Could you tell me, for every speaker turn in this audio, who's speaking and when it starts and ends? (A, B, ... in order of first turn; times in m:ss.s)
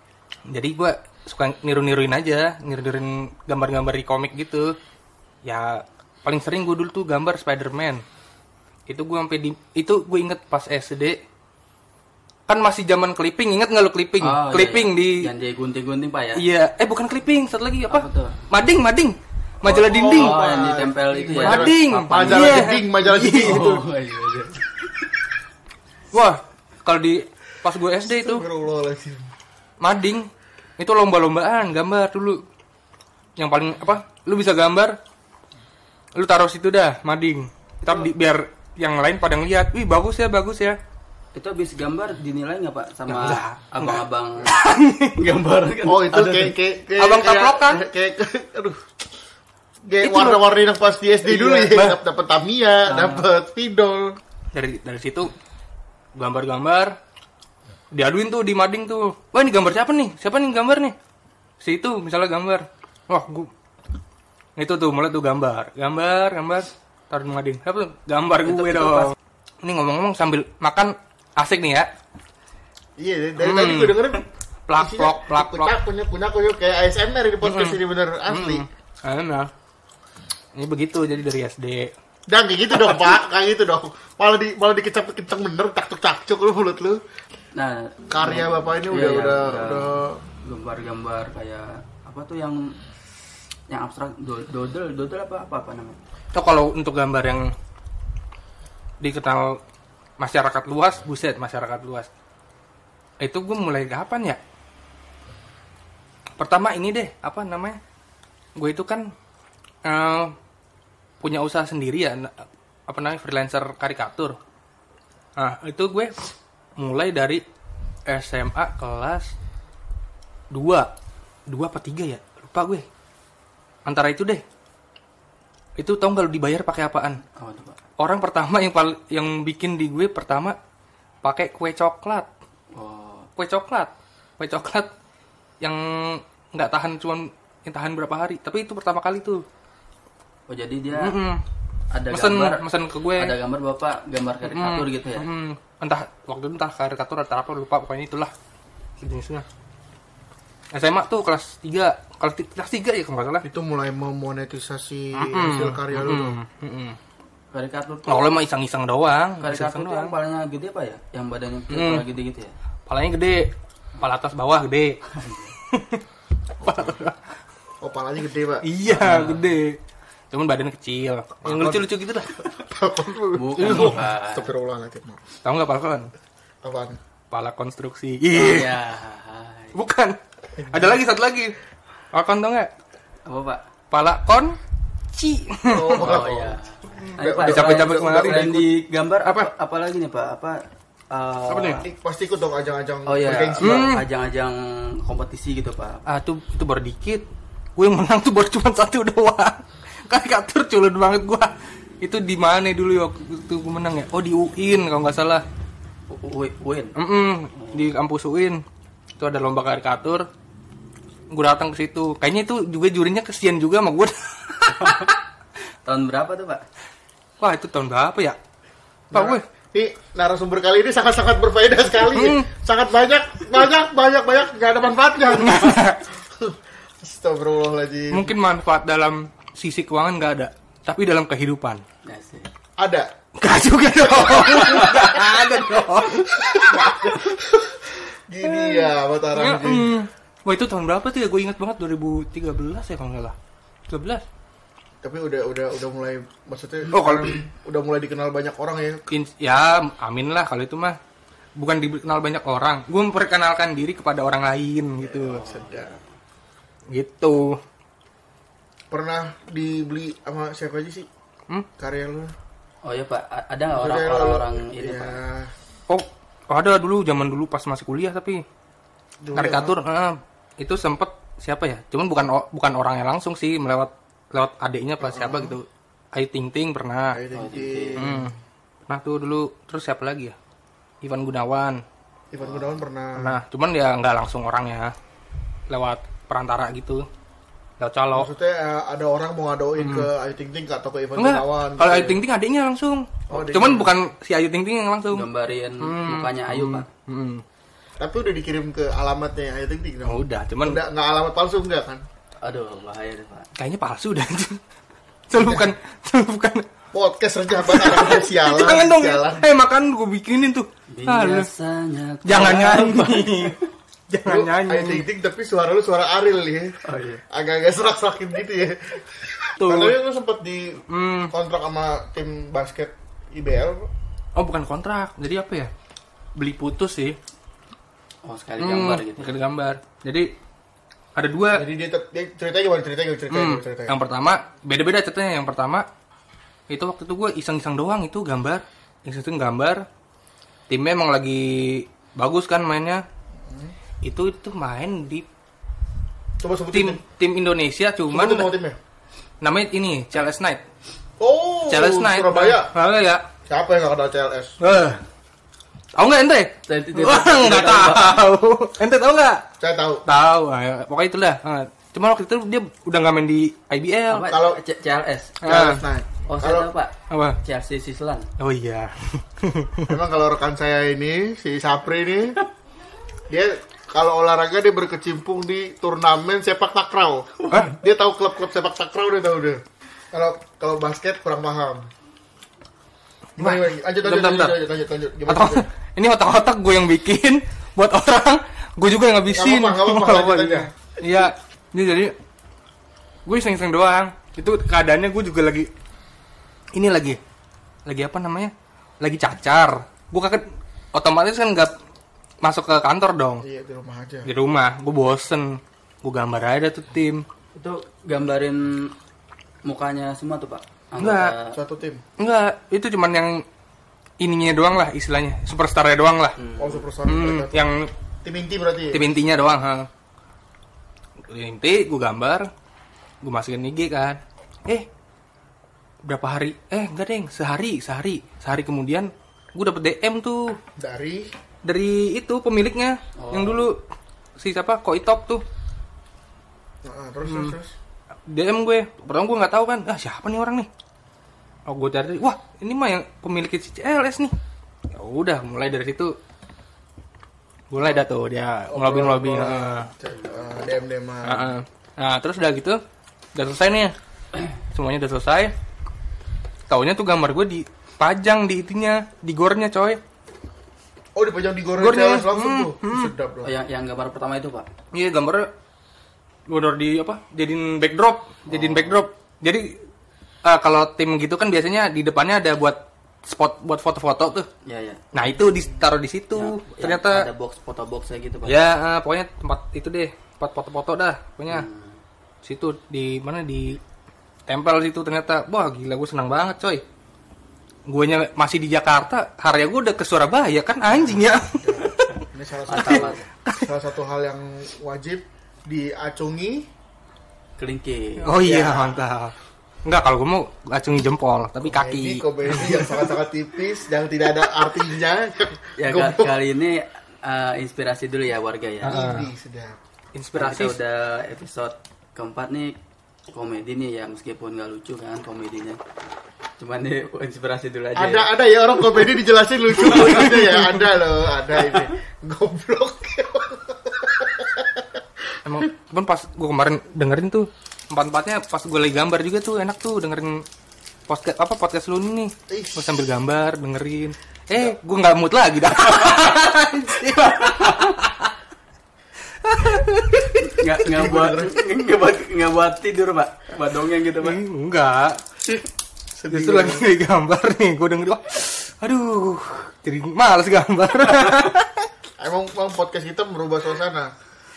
0:00.5-0:04.7 A
0:05.4-0:08.0 A
0:08.9-0:11.2 A
0:12.5-0:15.2 A
0:14.2-0:16.4 B
0:16.4-0:20.4 A
0:17.9-0:18.4 B
0:19.6-0:23.8 C
0:20.1-0:22.8 B
0:21.4-0:23.8 A
0:23.4-0:25.1 B
0:26.1-0:28.4 A
0:28.1-0:29.3 C
0:29.8-0:30.3 A
0:30.8-0:32.4 A
0:33.4-0:35.0 A
0:36.2-0:40.8 A
0:41.4-0:46.5 B
0:43.1-0:44.0 A
0:44.5-0:45.1 A
0:45.9-0:48.8 C
0:47.0-0:47.8 A
0:49.8-0:54.2 C
0:50.0-0:50.4 A
0:51.3-0:51.7 B
0:51.7-0:52.0 A
0:52.9-0:53.3 B
0:54.5-0:55.3 A
0:56.2-0:57.0 A
0:57.9-1:01.0 A
1:01.6-1:03.5 A
1:04.6-1:11.9 A
1:08.4-1:09.1 B
1:13.0-1:14.2 C
1:13.4-1:14.0 A
1:14.7-1:15.8 A
1:14.8-1:18.7 C
1:17.4-1:19.5 A
1:20.6-1:21.9 A
1:22.3-1:27.0 C
1:27.6-1:32.6 B
1:28.1-1:30.2 C
1:33.7-1:36.0 B
1:36.3-1:37.5 A
1:39.0-1:39.6 A
1:40.2-1:42.1 A
1:43.2-1:44.4 A
1:46.4-1:47.8 A
1:48.6-1:49.1 A
1:49.8-1:50.3 A
1:51.2-1:52.3 A
1:52.9-1:54.4 A
1:55.4-1:56.1 A
1:56.8-1:57.4 A
1:58.1-1:59.3 A
2:00.5-2:00.9 A
2:01.5-2:02.8 A
2:03.9-2:04.4 A
2:05.8-2:07.2 A
2:07.4-2:07.8 B
2:08.0-2:10.6 A
2:11.2-2:12.3 A
2:12.7-2:13.3 B
2:13.4-2:14.9 A
2:15.6-2:19.4 A
2:20.5-2:21.2 B
2:20.9-2:21.4 A
2:21.9-2:25.3 B
2:22.1-2:23.3 A
2:24.4-2:28.3 A
2:29.0-2:29.5 A
2:30.7-2:33.5 A
2:33.4-2:36.4 C
2:35.2-2:37.0 A
2:37.5-2:38.4 B
2:38.1-2:40.1 A
2:39.4-2:42.5 B
2:41.7-2:42.0 A
2:42.9-2:43.4 A
2:44.0-2:45.0 A
2:45.1-2:45.5 B
2:45.7-2:46.0 A
2:46.6-2:47.0 C
2:46.6-2:47.2 A
2:47.8-2:48.7 C
2:48.6-2:49.8 A
2:48.9-2:49.5 B
2:50.3-2:52.4 A
2:51.4-2:51.8 C
2:52.4-2:55.2 C
2:53.3-2:54.5 B
2:53.6-2:54.1 A
2:55.4-2:56.1 A
2:56.6-2:57.0 C
2:57.3-2:58.8 A
2:58.3-2:59.8 B
2:59.8-3:01.6 A
3:00.6-3:01.0 C
3:02.1-3:02.7 A
3:03.3-3:03.6 B
3:03.9-3:04.6 A
3:05.1-3:06.2 A
3:05.6-3:06.6 C
3:05.9-3:10.6 B
3:07.2-3:08.5 C
3:07.4-3:08.7 A
3:09.2-3:09.5 A
3:11.1-3:11.9 B
3:11.5-3:11.8 A
3:11.8-3:13.9 C
3:13.1-3:16.0 B
3:13.6-3:14.0 A
3:16.1-3:17.2 A
3:17.8-3:25.4 A
3:26.1-3:27.0 B
3:27.0-3:28.6 A
3:27.5-3:27.9 B
3:29.2-3:30.3 A
3:31.3-3:35.1 A
3:34.7-3:35.2 B
3:35.8-3:36.6 B
3:37.4-3:38.4 A
3:39.1-3:48.3 C
3:39.1-3:39.4 A
3:42.1-3:42.5 A
3:45.4-3:46.0 A
3:48.1-3:51.8 A
3:52.0-3:52.5 B
3:52.8-3:53.1 C
3:53.4-3:57.2 A
3:54.1-3:55.3 C
3:54.6-3:55.1 B
3:56.1-4:00.0 C
3:58.4-4:03.4 A
4:03.9-4:04.2 A
4:05.0-4:09.0 C
4:06.9-4:07.4 A
4:09.1-4:11.0 A
4:11.6-4:15.5 A
4:15.0-4:15.9 C
4:15.3-4:16.0 B
4:16.9-4:17.6 A
4:18.9-4:21.1 C
4:21.8-4:22.3 C
4:22.8-4:25.2 B
4:23.7-4:25.5 C
4:25.9-4:28.4 A
4:29.2-4:29.8 C
4:29.3-4:37.2 A
4:35.0-4:35.6 C
4:37.1-4:38.3 C
4:37.3-4:38.1 B
4:38.0-4:38.3 A
4:38.9-4:40.4 A
4:41.0-4:41.8 A
4:42.3-4:43.4 C
4:42.4-4:42.7 B
4:43.2-4:44.9 A
4:45.7-4:47.0 A
4:47.8-4:48.3 A
4:48.1-4:52.2 C
4:49.8-4:50.1 A
4:51.2-4:55.3 A
4:53.3-4:54.0 C
4:55.1-4:56.9 B
4:55.8-4:57.4 A
4:58.0-5:02.0 C
5:00.0-5:00.8 A
5:02.4-5:03.5 B
5:03.6-5:04.6 A
5:05.3-5:06.6 A
5:05.4-5:05.7 C
5:06.9-5:09.5 C
5:07.6-5:11.5 A
5:10.9-5:13.6 B
5:12.2-5:13.6 A
5:14.1-5:15.0 A
5:14.2-5:23.9 C
5:16.8-5:17.2 B
5:19.6-5:19.9 B
5:20.9-5:21.3 A
5:24.4-5:25.7 A
5:26.4-5:27.2 A
5:28.2-5:29.4 B
5:28.6-5:30.3 A
5:31.2-5:31.6 A
5:31.5-5:34.0 C
5:33.3-5:35.9 A
5:36.7-5:39.8 A
5:40.7-5:43.0 A
5:43.5-5:43.7 C
5:44.0-5:45.3 A
5:46.4-5:47.0 C
5:46.7-5:48.5 A
5:48.1-5:48.8 C
5:49.4-5:50.6 A
5:51.2-5:52.7 C
5:51.7-5:53.2 A
5:53.5-5:54.9 C
5:54.6-5:55.0 A
5:55.9-5:59.4 A
5:56.7-5:58.3 B
5:59.6-6:00.0 C
6:00.1-6:04.3 A
6:04.1-6:05.4 B
6:04.3-6:04.6 C
6:05.4-6:05.8 A
6:05.4-6:06.7 C
6:06.3-6:08.3 B
6:07.1-6:07.4 A
6:08.4-6:10.0 A
6:09.9-6:12.4 C
6:13.3-6:19.6 C
6:17.5-6:17.8 A
6:20.1-6:21.9 C
6:23.4-6:25.7 C
6:23.4-6:24.6 A
6:25.3-6:32.2 A
6:29.3-6:30.7 C
6:33.3-6:35.7 A
6:36.7-6:37.2 A
6:37.9-6:41.7 A
6:42.4-6:43.4 A
6:43.4-6:44.3 C
6:44.2-6:47.2 A
6:47.6-6:48.9 B
6:49.6-6:51.6 B
6:51.0-6:51.3 A
6:51.5-6:52.0 C
6:52.2-6:53.4 A
6:54.2-6:56.4 A
6:56.4-6:56.8 B
6:56.6-6:57.6 C
6:57.1-6:57.9 A
6:58.2-6:59.1 C
6:58.9-6:59.9 A
7:01.3-7:02.5 A
7:03.2-7:04.9 A
7:06.0-7:10.6 A
7:10.8-7:11.3 C
7:11.6-7:13.8 A
7:13.2-7:13.7 B
7:14.4-7:15.4 A
7:16.8-7:17.7 C
7:17.3-7:17.6 A
7:18.3-7:20.7 A
7:21.7-7:24.3 A
7:24.9-7:26.1 A
7:27.7-7:29.9 A
7:27.8-7:28.1 C
7:28.7-7:31.6 C
7:30.2-7:30.5 B
7:31.2-7:32.8 A
7:33.4-7:33.9 A
7:34.5-7:35.5 A
7:36.7-7:40.0 A
7:41.2-7:43.5 C
7:41.8-7:43.1 A
7:43.4-7:44.7 B
7:44.9-7:45.5 A
7:46.5-7:49.7 A
7:48.5-7:49.0 B
7:50.4-7:54.5 A
7:54.7-7:55.0 B
7:55.1-7:57.3 A
7:56.4-7:58.6 B
7:58.5-8:01.7 A
8:01.5-8:02.0 B
8:02.4-8:03.8 A
8:04.5-8:06.8 A
8:07.9-8:12.0 A
8:10.9-8:16.6 C
8:12.7-8:13.3 B
8:12.8-8:13.7 A
8:17.6-8:19.0 B
8:18.2-8:19.3 A
8:19.8-8:23.1 A
8:21.6-8:26.3 C
8:25.8-8:29.0 B
8:28.8-8:29.3 A
8:28.8-8:29.8 C
8:30.1-8:30.8 A
8:30.4-8:32.7 B
8:33.3-8:35.8 B
8:36.6-8:38.3 B
8:38.0-8:44.9 C
8:40.0-8:40.3 A
8:45.5-8:50.4 A
8:51.1-8:58.3 A
8:52.5-8:53.1 C
8:57.3-8:57.9 B
8:59.4-9:00.5 A
9:00.4-9:04.4 B
9:00.9-9:01.6 C
9:04.2-9:05.2 A
9:06.2-9:06.9 C
9:06.3-9:11.8 A
9:12.2-9:14.1 C